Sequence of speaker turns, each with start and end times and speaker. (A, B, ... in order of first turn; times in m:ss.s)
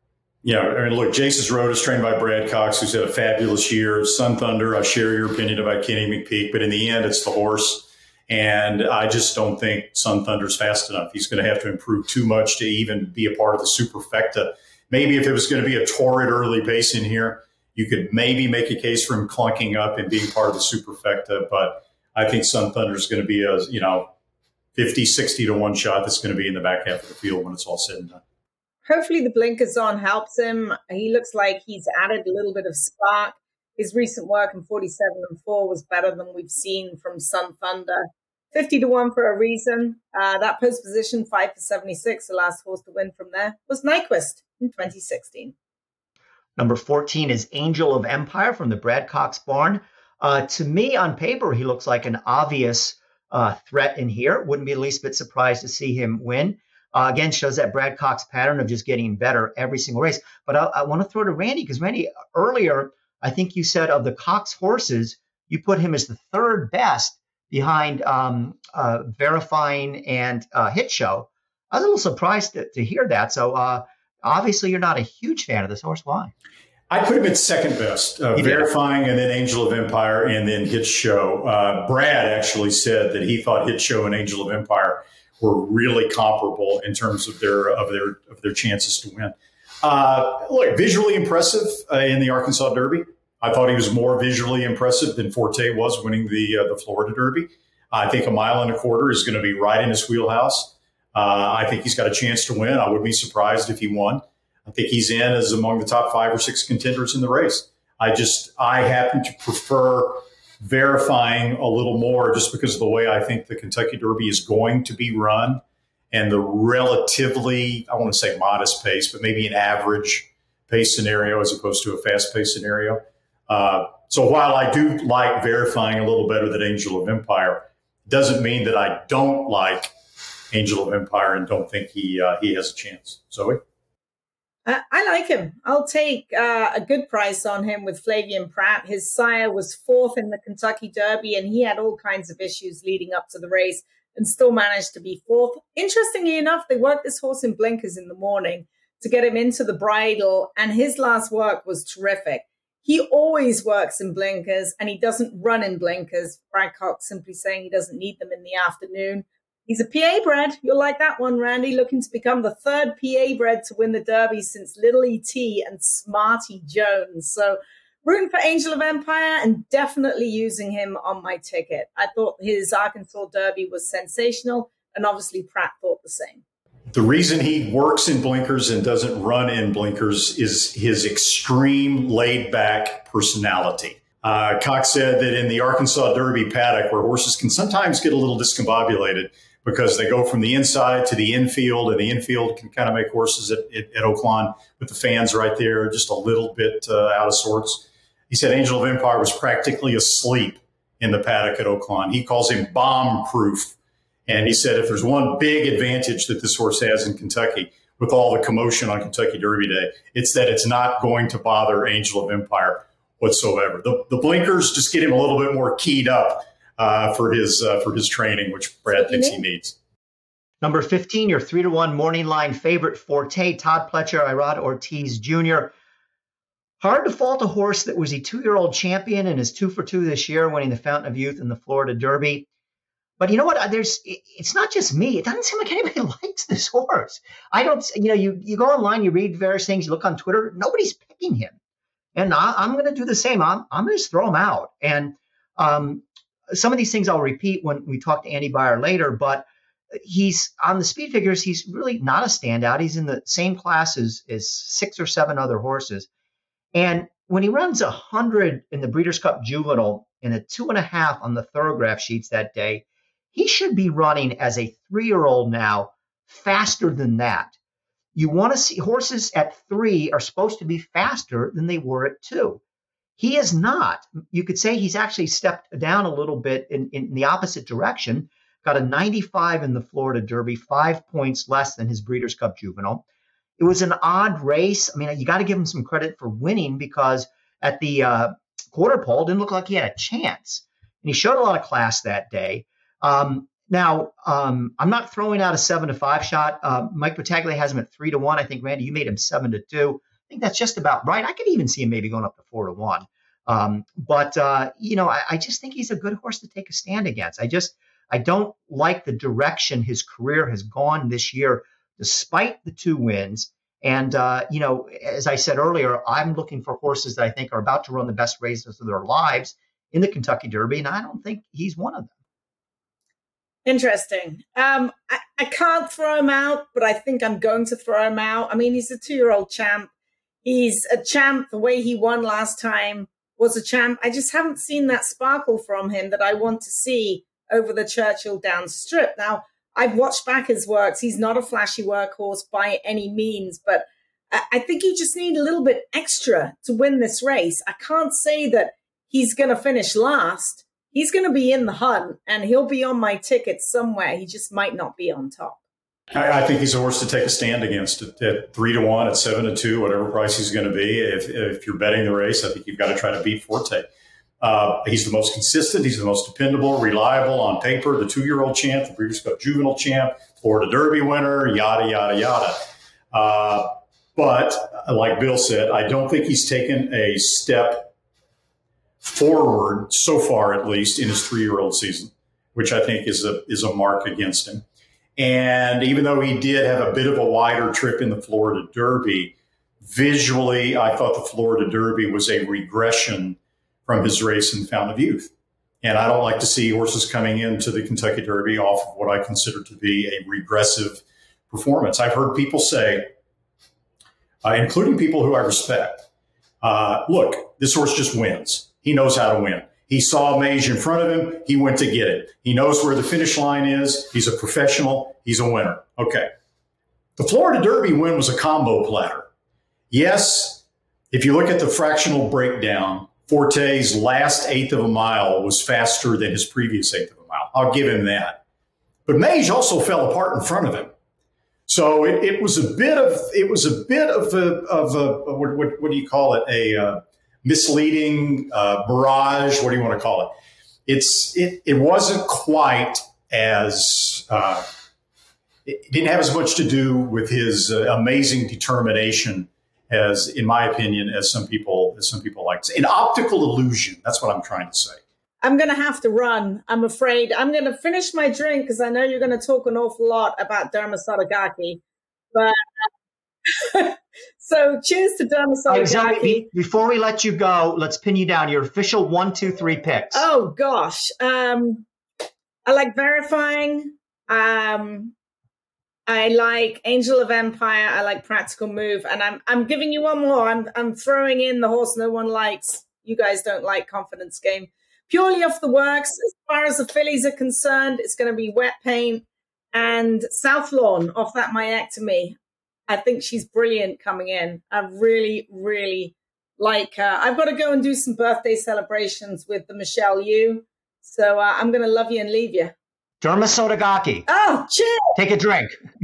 0:00.4-0:24.1 A
0:24.8-0:28.2 A
0:28.8-0:45.5 B
0:46.6-1:16.3 C
1:16.9-2:09.9 A
1:18.4-1:18.7 C
2:10.5-2:13.6 A
2:14.6-2:56.4 B
2:56.9-3:23.7 A
3:24.3-3:39.7 A
3:38.9-3:39.4 B
3:40.6-3:45.7 C
3:46.8-3:52.5 C
3:53.2-4:01.6 C
4:02.1-4:16.1 C
4:16.7-4:27.5 C
4:28.1-4:32.6 C
4:33.2-4:43.0 C
4:43.6-5:22.1 C
5:23.6-5:29.9 B
5:30.4-5:55.6 B
5:56.1-6:03.8 A
6:04.4-6:12.6 A
6:13.1-6:17.9 A
6:19.0-6:24.6 A
6:25.2-6:29.3 A
6:29.8-6:35.3 A
6:35.8-6:43.1 A
6:44.4-6:46.0 A
6:46.6-6:56.3 A
6:57.2-6:59.3 A
6:59.9-7:08.4 A
7:09.0-7:10.9 A
7:11.7-7:20.3 A
7:20.9-7:24.6 A
7:25.6-7:35.0 A
7:35.4-7:41.8 B
7:42.3-7:42.6 B
7:43.5-7:46.5 B
7:45.7-7:50.3 C
7:50.1-7:51.8 B
7:52.6-7:55.1 B
7:56.1-8:12.4 B
8:12.9-8:22.7 B
8:23.2-8:24.2 C
8:24.3-8:25.1 B
8:25.1-8:25.8 C